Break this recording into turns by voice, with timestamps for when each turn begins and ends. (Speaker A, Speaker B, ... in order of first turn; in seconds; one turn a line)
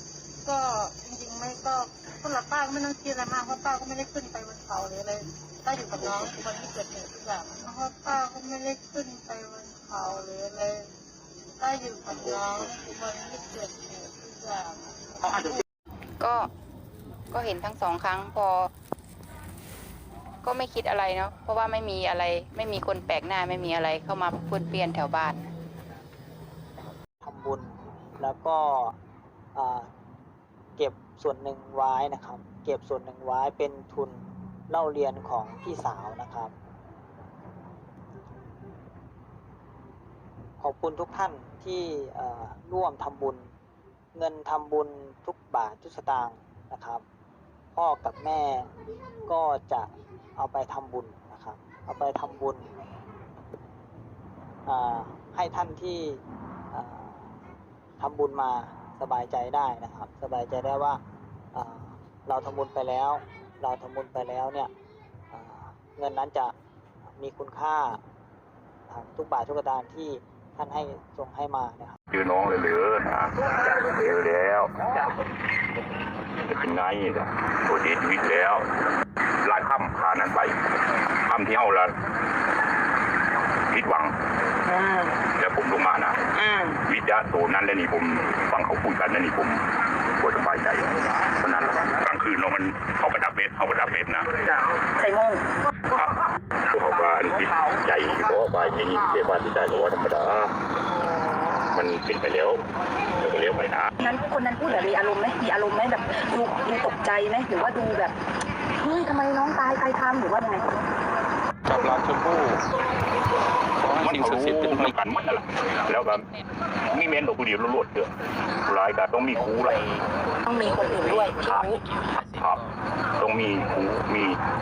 Speaker A: 0.4-10.9
Speaker A: 11.6-15.6
Speaker B: 16.2-16.5
Speaker B: 17.3-18.7
Speaker B: 20.4-25.5
Speaker C: 27.2-28.9
Speaker C: 29.5-29.9
Speaker C: 30.8-36.5
Speaker C: 40.6-43.5
Speaker C: 44.1-47.0
Speaker C: 47.7-48.7
Speaker C: 49.3-52.7
Speaker C: 54.6-57.3
Speaker C: 58.0-61.0
Speaker C: 61.5-64.7
Speaker C: 65.3-66.5
Speaker C: 67.1-68.0
Speaker C: 68.9-72.0
Speaker D: 72.1-74.7
Speaker D: 76.5-78.7
Speaker D: 79.4-80.5
Speaker D: 81.2-81.9
Speaker D: 83.7-84.1
Speaker E: 84.7-85.1
Speaker D: 85.3-86.2
Speaker E: 86.4-86.8
Speaker D: 86.8-89.6
Speaker D: 90.2-94.3
Speaker E: 95.0-95.4
Speaker D: 96.7-100.5
Speaker D: 101.7-102.6
Speaker D: 103.2-103.9
Speaker E: 104.0-108.2
Speaker E: 108.8-110.7
Speaker F: 111.7-112.6
Speaker F: 113.8-114.9
Speaker D: 113.9-116.2
Speaker D: 116.9-120.0
Speaker E: 120.5-121.8
Speaker D: 122.3-122.6
Speaker D: 123.2-124.4